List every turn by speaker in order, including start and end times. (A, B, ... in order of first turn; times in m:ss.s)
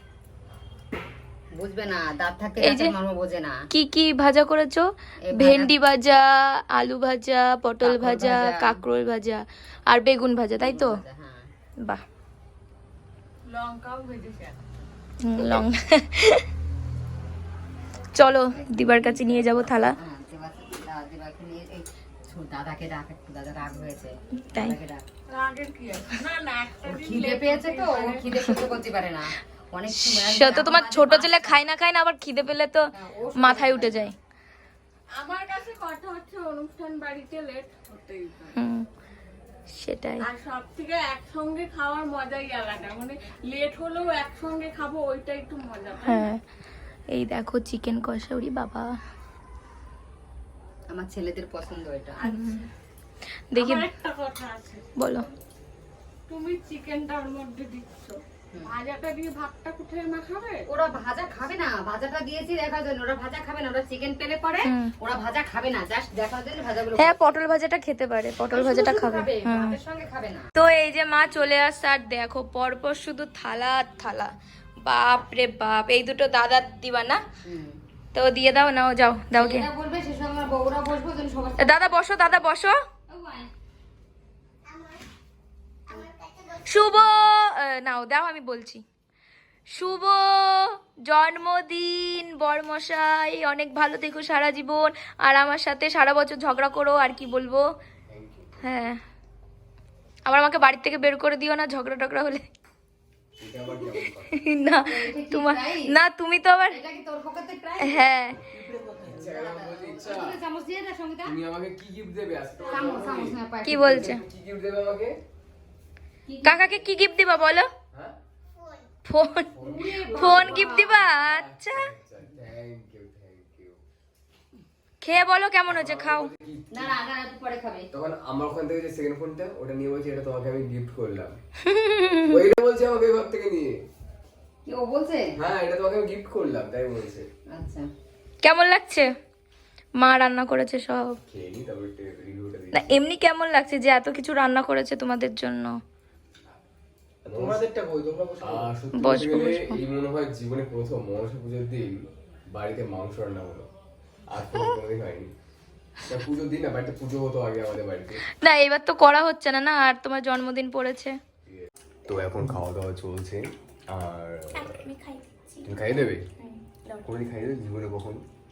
0:01.5-0:03.6 A
0:02.6-0:02.9 B
0:03.7-0:11.0 B
0:05.3-0:05.7 A
0:07.8-0:08.8 A
0:10.6-0:11.5 A
0:13.4-0:14.6 C
0:15.2-0:16.4 B
0:18.1-0:20.0 B
0:18.5-0:25.0 A
0:24.4-0:24.8 B
0:25.3-0:28.5 C
0:26.8-0:31.6 A
0:29.9-0:34.1 B
0:33.0-0:34.1 A
0:35.2-0:38.6 C
0:38.5-0:38.8 B
0:39.7-0:40.2 B
0:40.2-0:46.3 C
0:46.0-0:46.4 B
0:47.1-0:48.9 B
0:50.9-0:52.3 A
0:52.2-0:52.6 B
0:53.5-0:53.8 B
0:53.5-0:54.9 C
0:55.0-0:55.3 B
0:56.3-1:00.6 C
1:00.7-1:07.1 A
1:04.6-1:04.9 B
1:07.0-1:09.8 B
1:08.5-1:10.5 A
1:10.6-1:14.3 B
1:14.8-1:17.2 B
1:17.4-1:17.8 A
1:18.1-1:19.7 B
1:19.3-1:22.4 A
1:21.6-1:22.8 B
1:23.1-1:23.5 A
1:26.5-1:28.8 B
1:29.7-1:37.7 B
1:38.1-1:38.6 D
1:38.6-1:39.0 B
1:40.2-1:42.5 B
1:43.4-1:44.4 D
1:44.4-1:46.8 B
1:44.9-1:45.9 A
1:46.7-1:48.0 A
1:47.8-1:48.4 B
1:48.6-1:49.2 E
1:49.0-1:50.4 D
1:49.2-1:51.3 A
1:51.2-1:53.4 D
1:52.7-1:54.2 A
1:53.6-1:54.2 B
1:53.9-1:55.2 D
1:56.3-1:56.9 A
1:56.4-1:57.7 B
1:59.0-1:59.6 B
1:59.5-2:03.8 D
1:59.7-2:00.7 C
1:59.7-2:00.9 A
2:00.1-2:01.9 B
2:05.0-2:06.3 B
2:05.7-2:07.0 D
2:06.7-2:07.9 A
2:07.9-2:11.4 D
2:11.6-2:12.4 B
2:12.2-2:13.7 D
2:14.6-2:15.3 A
2:15.4-2:17.3 D
2:17.5-2:17.8 A
2:18.4-2:19.1 B
2:20.0-2:21.2 B
2:21.3-2:23.0 D
2:22.7-2:25.7 B
2:27.3-2:27.6 D
2:27.3-2:28.7 E
2:28.4-2:32.0 D
2:29.0-2:29.8 B
2:32.5-2:33.7 D
2:34.3-2:35.3 D
2:36.0-2:38.2 D
2:38.4-2:41.2 B
2:41.5-2:44.8 D
2:44.5-2:47.1 B
2:45.6-2:46.2 D
2:47.0-2:48.2 D